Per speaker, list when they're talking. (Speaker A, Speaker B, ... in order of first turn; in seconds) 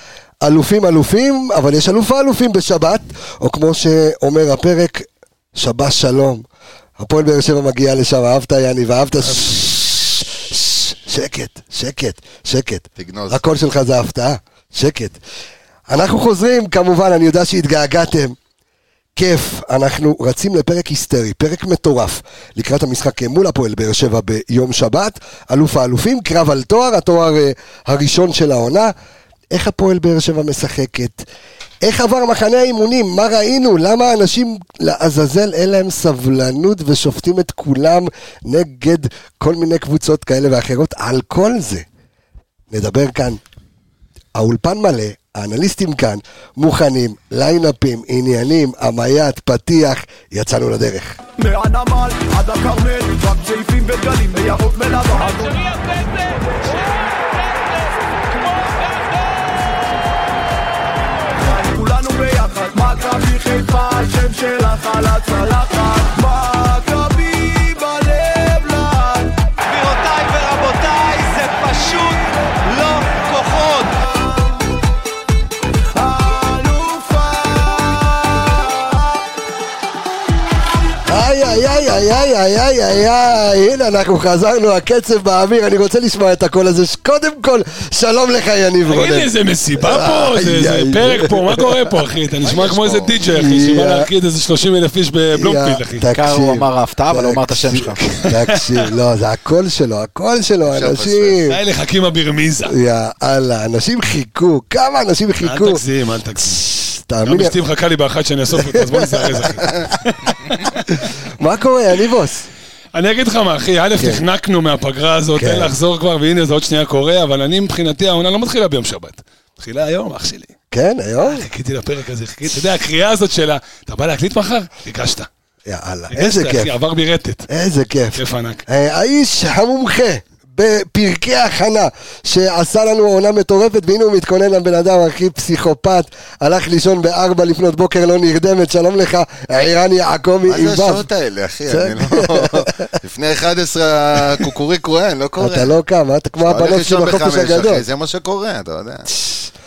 Speaker A: 0.4-6.5, 7.0-15.2, 15.9-18.4, 19.1-28.9, 29.5-31.2, 31.8-41.9, 42.7-43.4, 44.4-51.2, 81.1-92.0, 93.3-94.1, 95.3-101.6, 102.7-105.8, 106.5-107.5, 108.5-109.9, 110.9-112.5, 114.0-114.2, 115.3-115.8, 120.7-121.5, 125.7-126.7, 127.5-141.1, 141.7-142.9, 145.4-147.8, 149.1-149.4
Speaker B: 13.0-13.4, 92.4-93.2, 100.7-101.4, 140.5-145.7, 146.4-149.1
Speaker C: 51.4-56.8, 58.4-58.9, 61.4-69.5, 75.9-79.1
Speaker D: 69.6-73.9, 96.1-98.0
Speaker E: 88.9-96.1, 98.2-98.8, 101.5-102.8, 105.4-106.6, 107.2-111.1, 112.9-120.5, 121.2-125.3, 126.1-127.5, 128.2-128.6